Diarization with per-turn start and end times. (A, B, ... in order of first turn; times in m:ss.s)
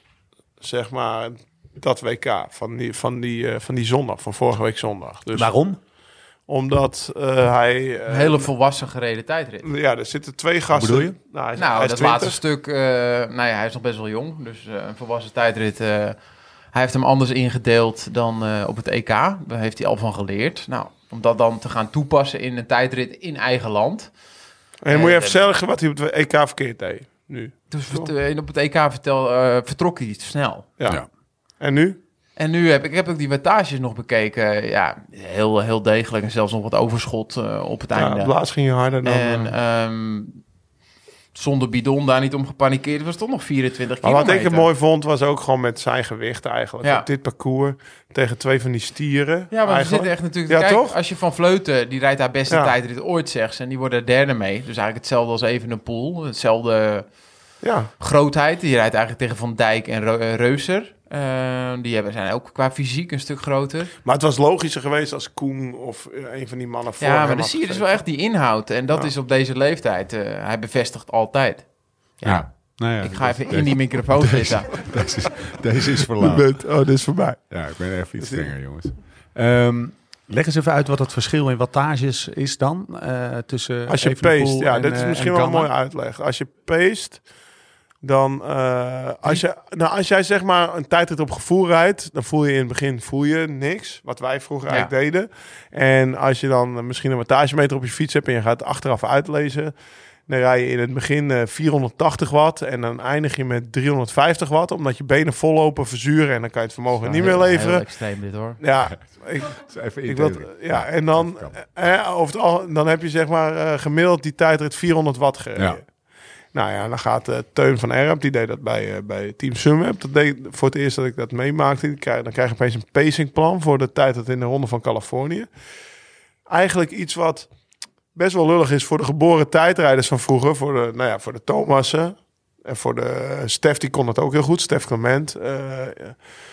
0:00.6-0:05.5 A
0:05.3-0:05.8 B
0:06.5-0:08.5 A
0:08.1-0:09.7 C
0:09.6-0:12.4 A
0:10.7-0:11.2 B
0:11.6-0:16.2 C
0:16.7-0:24.1 C
0:24.8-0:28.1 A
0:24.9-0:25.4 C
0:27.7-0:30.7 C
0:30.8-0:31.0 A
0:31.6-0:32.0 A
0:32.4-0:38.3 C
0:38.0-0:39.5 A
0:39.0-0:40.4 C
0:41.3-0:44.7 C
0:44.0-0:50.9 A
0:49.5-0:57.0 C
0:52.5-0:52.7 A
0:57.6-0:57.9 A
0:58.0-1:03.9 C
1:04.0-1:08.0 A
1:07.0-1:11.6 C
1:12.2-1:14.8 C
1:12.2-1:16.5 B
1:16.2-1:17.5 A
1:17.5-1:25.7 B
1:18.2-1:18.5 A
1:23.9-1:27.2 A
1:28.0-1:39.7 A
1:40.3-1:47.8 A
1:47.0-1:48.6 C
1:48.6-1:55.9 A
1:49.4-1:51.6 B
1:56.5-2:05.5 A
2:06.5-2:07.5 A
2:08.1-2:16.2 A